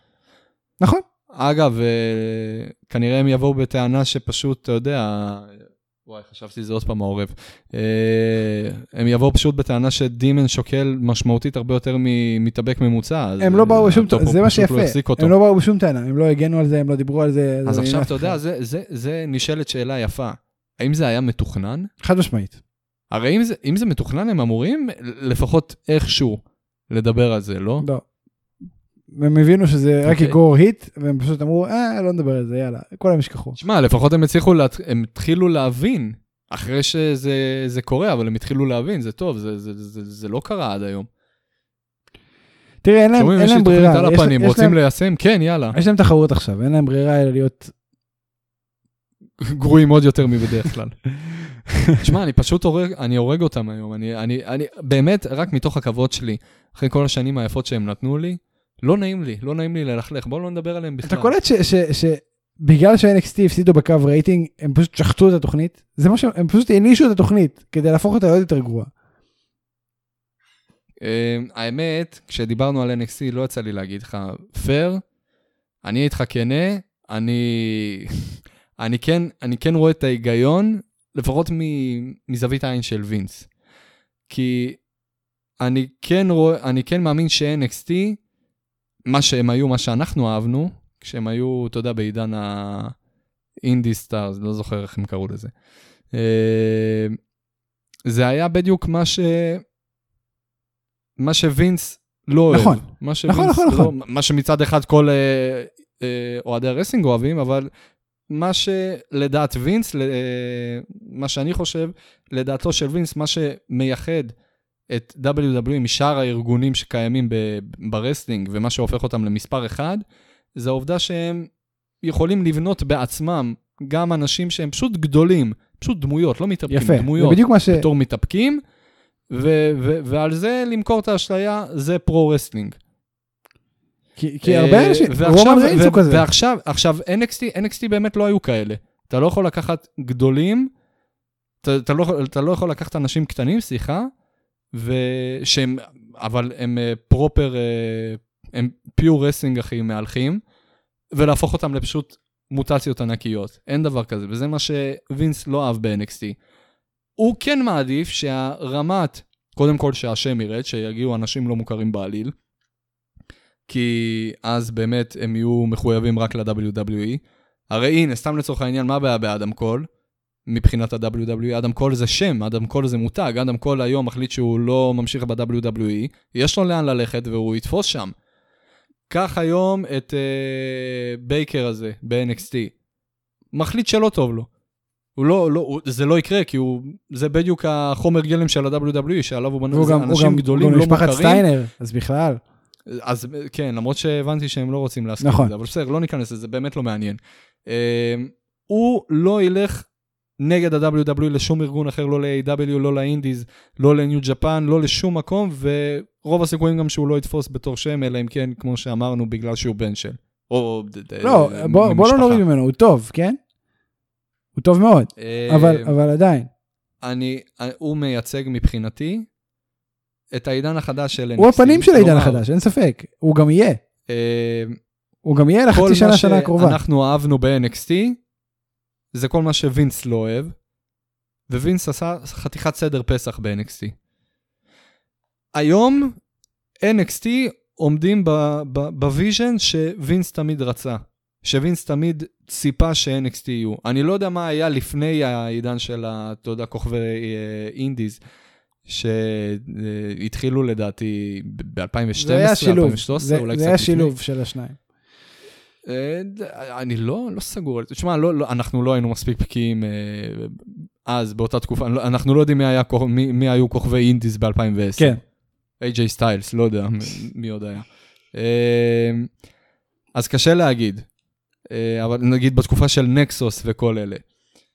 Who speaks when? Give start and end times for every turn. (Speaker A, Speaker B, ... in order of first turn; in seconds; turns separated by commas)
Speaker A: 1.3-15.3, Speaker B: 13.4-18.4, Speaker A: 17.7-21.9, Speaker B: 22.0-22.6, Speaker A: 23.1-27.9, Speaker B: 29.1-33.6, Speaker A: 30.0-30.4, Speaker A: 33.6-41.1, Speaker B: 42.8-44.8, Speaker A: 43.2-45.8, Speaker B: 45.7-47.7, Speaker A: 49.4-51.0, Speaker A: 52.0-61.3, Speaker B: 61.0-68.9, Speaker A: 71.0-75.0, Speaker A: 75.8-78.1, Speaker A: 78.8-83.5, Speaker A: 84.3-84.8, Speaker A: 85.6-88.2, Speaker A: 89.1-93.0, Speaker A: 93.6-95.5, Speaker A: 96.1-97.2, Speaker A: 98.1-99.6, Speaker A: 101.2-107.7, Speaker B: 102.5-103.9, Speaker A: 108.3-114.3, Speaker A: 114.9-120.0, Speaker A: 120.5-121.5, Speaker A: 122.0-128.6, Speaker B: 126.7-127.9, Speaker A: 129.3-132.8, Speaker B: 134.2-136.3, Speaker A: 134.4-140.7, Speaker A: 141.6-144.1, Speaker A: 144.7-150.4, Speaker A: 151.1-156.4, Speaker A: 157.2-162.3, Speaker A: 163.7-169.9, Speaker A: 170.5-178.1, Speaker A: 179.1-182.7, Speaker A: 183.5-184.5, Speaker A: 185.2-191.5, Speaker B: 189.7-192.4, Speaker A: 192.9-199.9, Speaker B: 195.2-195.5, Speaker A: 200.4-212.4, Speaker B: 211.2-213.4, Speaker B: 214.6-216.5, Speaker A: 215.2-215.9, Speaker A: 217.0-219.3, Speaker A: 220.3-222.4, Speaker B: 221.4-223.8, Speaker A: 224.1-224.8, Speaker B: 225.2-226.8, Speaker A: 225.7-228.2, Speaker A: 229.1-230.5, Speaker A: 231.5-233.9, Speaker A: 235.6-236.2, Speaker A: 236.8-248.2, Speaker A: 248.9-254.1, Speaker B: 252.2-254.8, Speaker A: 255.8-265.2, Speaker A: 265.8-269.3, Speaker A: 270.1-271.1, Speaker A: 271.7-274.2